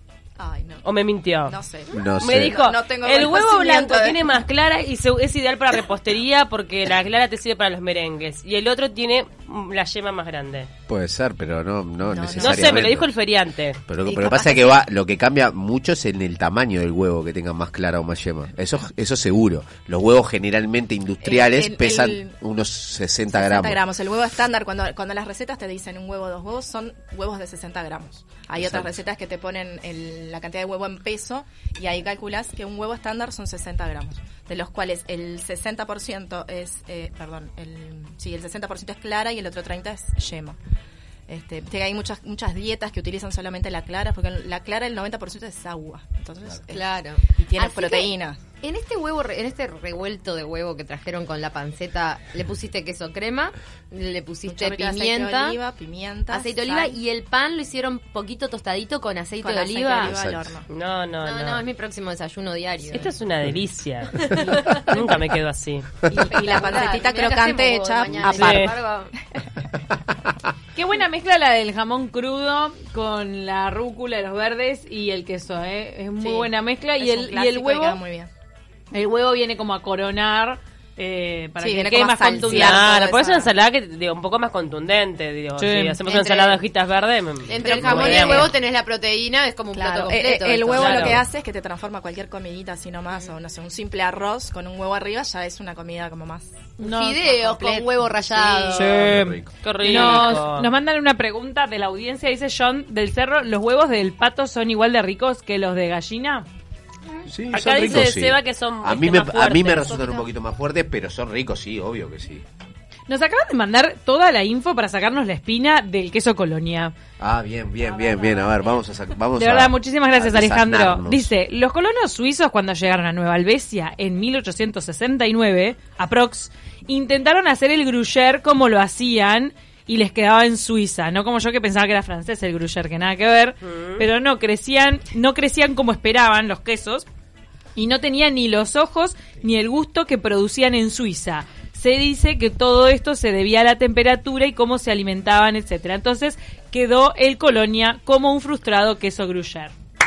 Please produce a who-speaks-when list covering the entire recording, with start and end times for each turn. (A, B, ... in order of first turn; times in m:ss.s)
0:00.4-0:00.9 A
0:00.8-0:01.6 B
0:01.4-0:04.2 A
0:01.9-0:02.6 C
0:02.2-0:10.7 B
0:10.9-0:13.1 C
0:12.0-0:12.9 A
0:12.4-0:13.8 B
0:13.9-0:23.8 C
0:14.0-0:14.8 A
0:21.2-0:22.4 A
0:23.3-0:40.6 A
0:28.6-0:28.9 C
0:41.3-0:48.4 A
0:46.7-0:55.6 D
0:54.4-0:57.0 A
0:56.3-1:00.1 D
0:59.4-1:00.7 A
1:00.0-1:00.5 C
1:00.7-1:01.6 B
1:01.2-1:03.2 D
1:02.9-1:05.9 B
1:04.3-1:04.8 E
1:06.1-1:08.8 A
1:06.2-1:09.1 D
1:08.3-1:08.7 B
1:10.8-1:18.0 E
1:16.2-1:18.3 A
1:18.9-1:23.4 E
1:21.6-1:23.5 A
1:22.5-1:28.5 B
1:25.6-1:26.0 E
1:26.1-1:26.6 D
1:27.5-1:31.2 D
1:27.6-1:28.5 A
1:29.7-1:38.1 A
1:30.8-1:31.2 B
1:36.8-1:37.5 E
1:36.8-1:39.0 D
1:38.5-1:46.5 E
1:39.0-1:39.5 C
1:39.6-1:40.7 B
1:40.0-1:40.2 D
1:47.3-1:52.4 C
1:47.5-1:50.2 B
1:53.1-1:56.9 E
1:57.2-2:01.3 C
1:57.8-1:58.6 E
1:59.4-2:17.1 E
2:13.6-2:14.1 B
2:17.8-2:29.7 E